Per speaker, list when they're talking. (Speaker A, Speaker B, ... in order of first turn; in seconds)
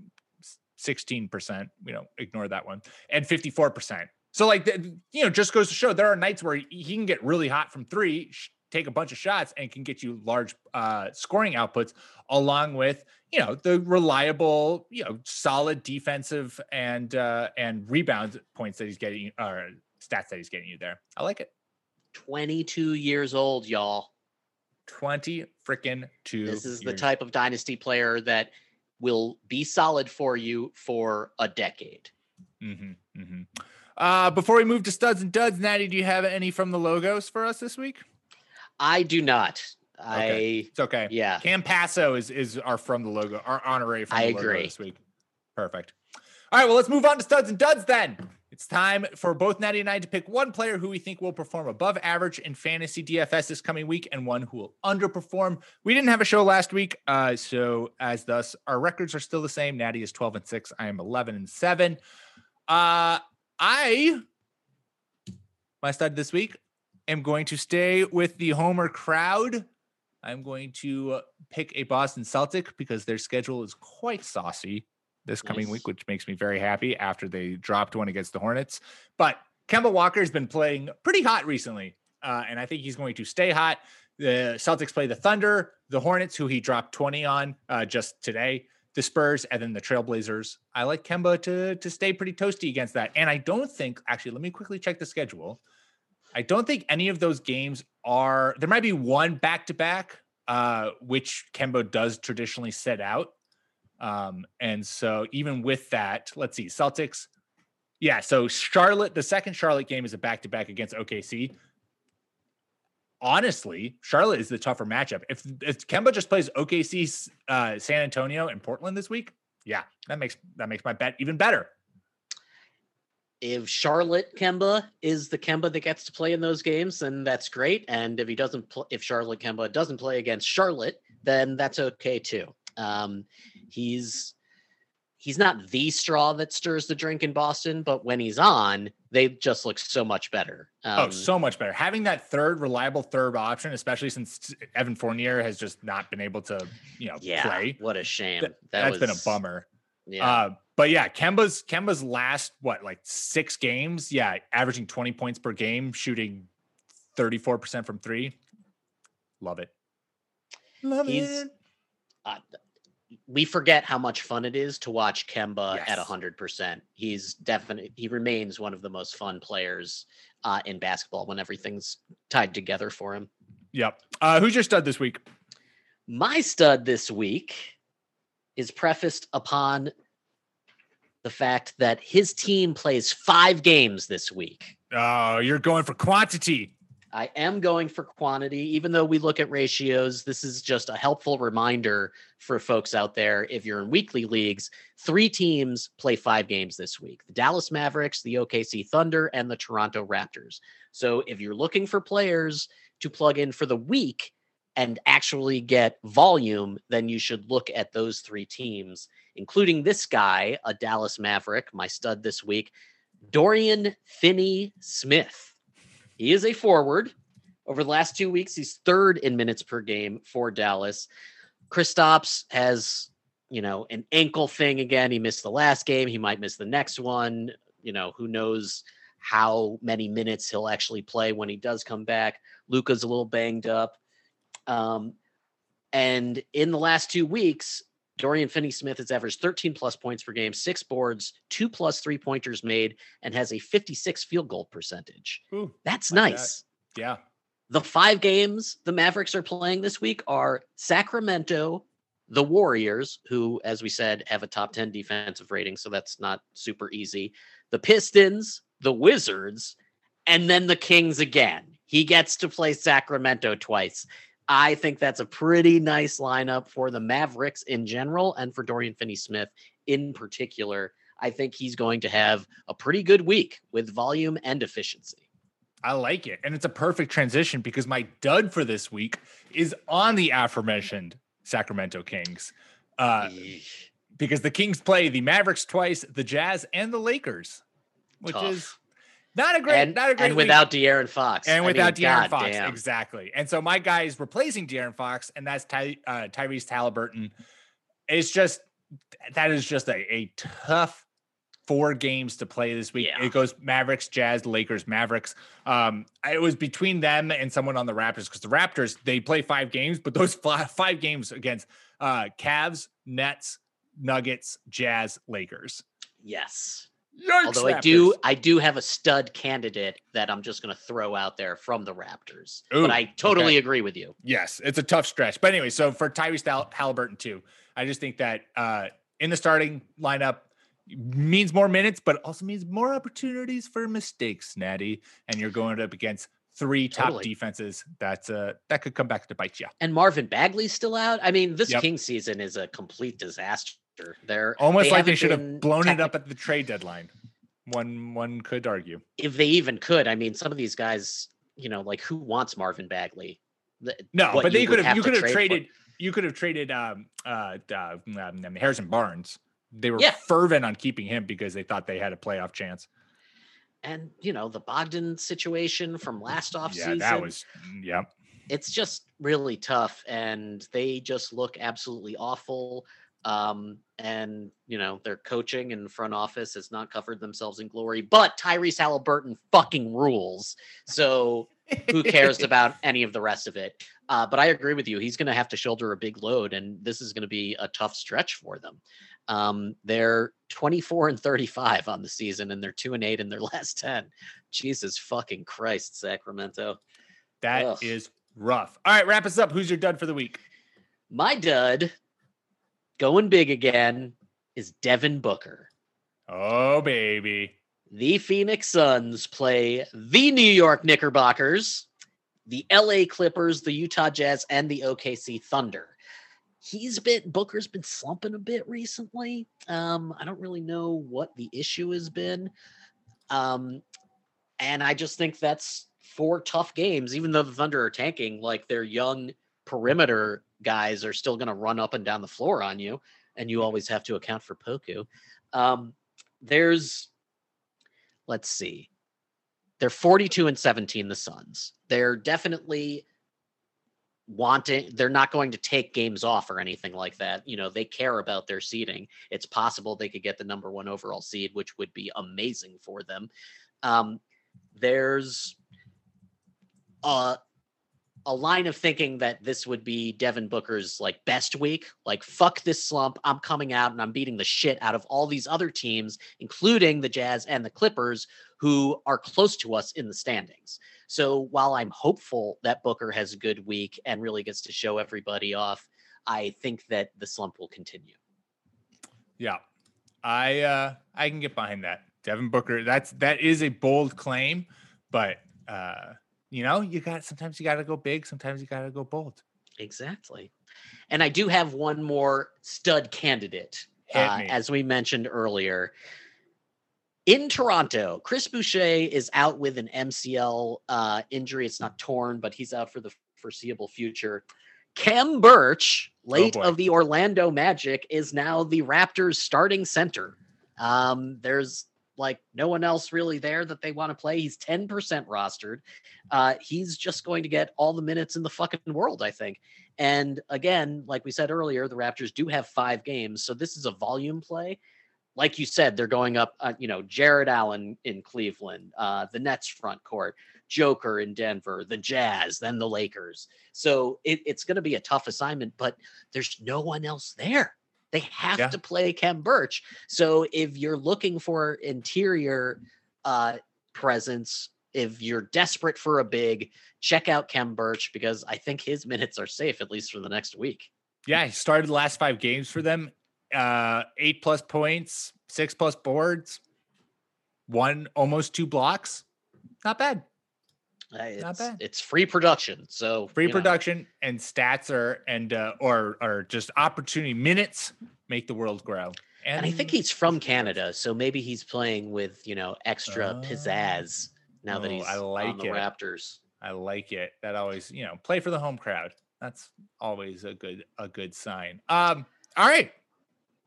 Speaker A: 0.5-21.5, 24.9-27.1, 32.6-38.0, 40.1-45.0, 45.6-46.0, 46.5-62.0, 62.7-64.2, 65.8-69.7, 70.2-95.6, 96.3-103.3, 104.0-107.3, 108.0-111.5, 113.2-121.7, 141.0-147.8, 148.4-149.7, 150.2-156.5, 157.2-158.4, 159.4-159.7, 160.8-161.5, 165.7-166.1, 173.7-175.2, 184.9-186.7, 245.5-247.2, 275.8-283.4, 284.2-287.6, 288.2-288.8, 289.4-290.7, 291.5-297.3, 298.1-298.6, 299.2-301.1, 301.7-315.8, 317.2-318.2, 322.7-323.6, 324.2-339.7, 344.6-347.1, 347.7-349.0, 354.1-362.9, 366.7-368.1, 381.7-382.5, 397.4-400.4, 406.3-407.5, 480.2-489.4, 494.1-494.6, 506.3-506.8, 551.3-556.6, 557.7-559.2, 559.8-560.2, 561.4-561.8, 563.4-570.8, 573.1-574.0, 574.7-575.9, 576.6-582.9
Speaker B: 22.1-24.1, 26.4-32.1, 38.8-41.5, 44.1-44.7, 75.4-75.8, 123.4-134.3, 135.2-141.3, 147.2-149.4, 150.1-150.4, 161.1-161.4, 163.3-173.3, 176.1-177.8, 178.6-179.9, 181.2-184.8, 187.1-212.7, 213.3-215.5, 216.2-217.1, 217.7-221.1, 221.7-233.9, 234.7-235.2, 235.9-246.6, 247.7-259.8, 260.3-275.2, 283.2-283.8, 288.3-288.7, 289.7-292.8, 303.0-303.3, 316.2-316.9, 317.4-324.1, 336.9-337.3, 339.8-346.1, 349.2-355.6, 363.8-367.3, 368.5-396.8, 397.5-397.9, 401.1-401.9, 403.0-405.7, 407.9-411.9, 412.5-416.0, 416.6-422.5, 423.3-423.8, 424.6-437.1, 438.3-438.9, 439.8-443.1, 444.3-453.3, 453.8-454.2, 454.8-455.6, 457.0-457.4, 458.3-478.1, 489.8-490.5, 491.1-495.9, 497.3-504.4, 504.9-524.8, 525.4-550.9, 561.1-563.8, 569.6-576.4